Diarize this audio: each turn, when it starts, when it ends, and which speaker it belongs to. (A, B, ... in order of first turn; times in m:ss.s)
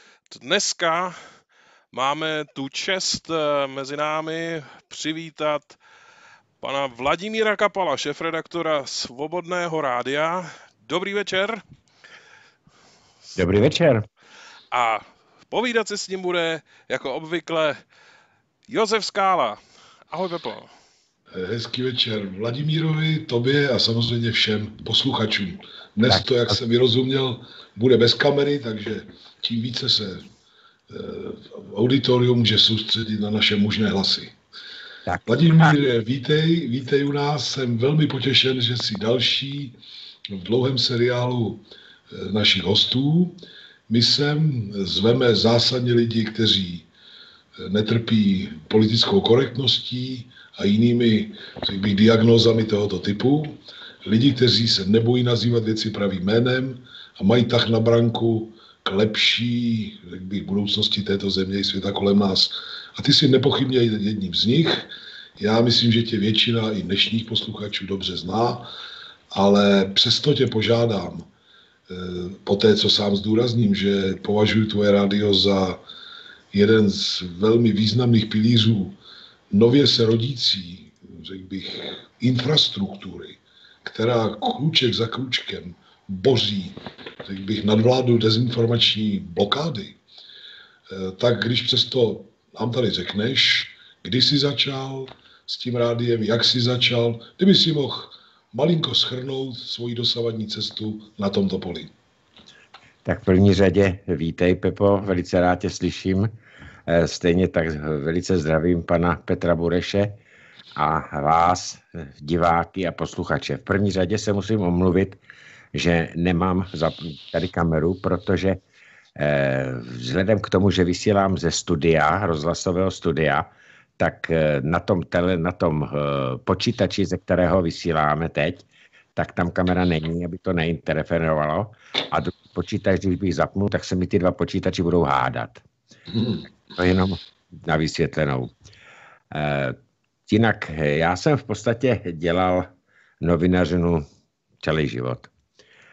0:00.3-0:01.2 A
0:01.9-0:05.8 A
0:06.6-0:11.6 A
0:13.4-0:14.1 B
0:14.7-0:17.8 A
0:18.7-0:20.7 A
0:21.3-0:30.3 C
0:26.1-0:26.6 B
0:30.9-0:34.4 C
0:35.1-0:35.7 B
0:35.3-0:39.8 C
0:40.3-0:46.9 C
0:47.6-1:08.7 C
1:09.3-1:11.3 C
1:11.9-1:15.8 C
1:16.5-1:19.0 C
1:19.5-1:30.0 C
1:30.9-1:41.9 C
1:43.0-1:46.3 B
1:46.9-1:50.2 B
1:50.8-1:55.2 B
1:55.7-1:58.6 B
1:59.2-2:15.6 B
2:16.8-2:18.5 B
2:19.3-2:22.7 B
2:23.2-2:24.1 B
2:24.6-2:25.3 B